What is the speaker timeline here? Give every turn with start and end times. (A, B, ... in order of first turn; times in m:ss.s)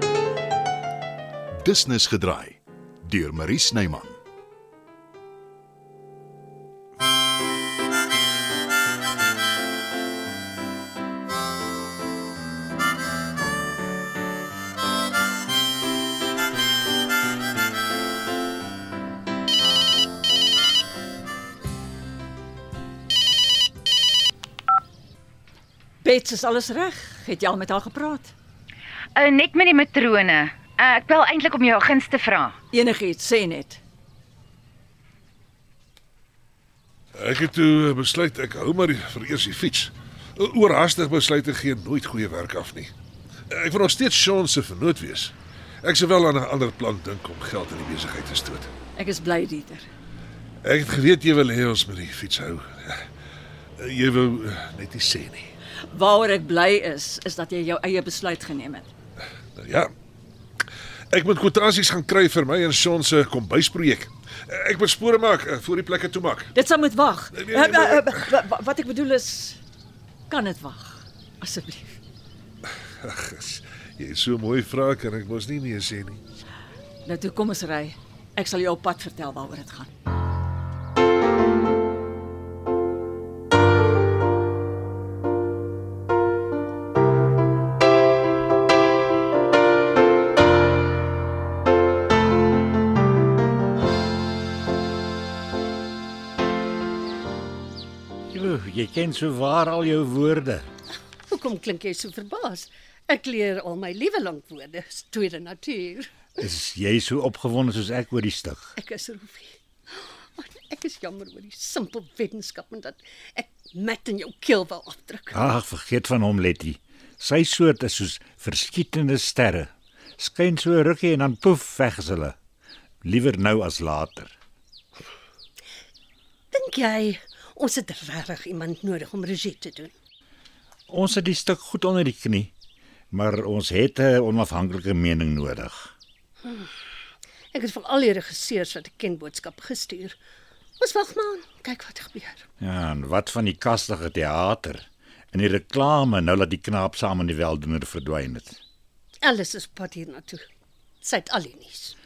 0:01.6-0:04.2 A
0:26.0-0:28.3 B
0:29.2-0:32.6 C
0:32.7-0:33.8 B
0:37.1-0:42.9 D
0:43.5-0:48.7 D
0:49.0-0:49.8 B
0:50.6-0:53.0 D
0:53.8-0:55.5 D
0:55.9-0:58.9 B
0:59.6-0:59.9 D
1:01.1-1:06.5 D
1:06.5-1:09.6 B
1:07.3-1:08.2 D
1:10.3-1:12.0 B
1:13.0-1:16.2 D
1:17.0-1:19.9 B
1:38.3-1:40.6 E
1:41.3-1:46.3 F
1:46.4-1:48.6 E
1:48.8-1:55.4 F
1:55.3-2:02.4 E
2:03.0-2:04.3 E
2:06.5-2:09.9 F
2:10.9-2:12.5 E
2:13.1-2:15.9 E
2:16.4-2:16.7 F
2:17.5-2:20.2 F
2:20.8-2:22.4 F
2:22.6-2:28.6 E
2:29.2-2:30.4 F
2:31.0-2:31.9 F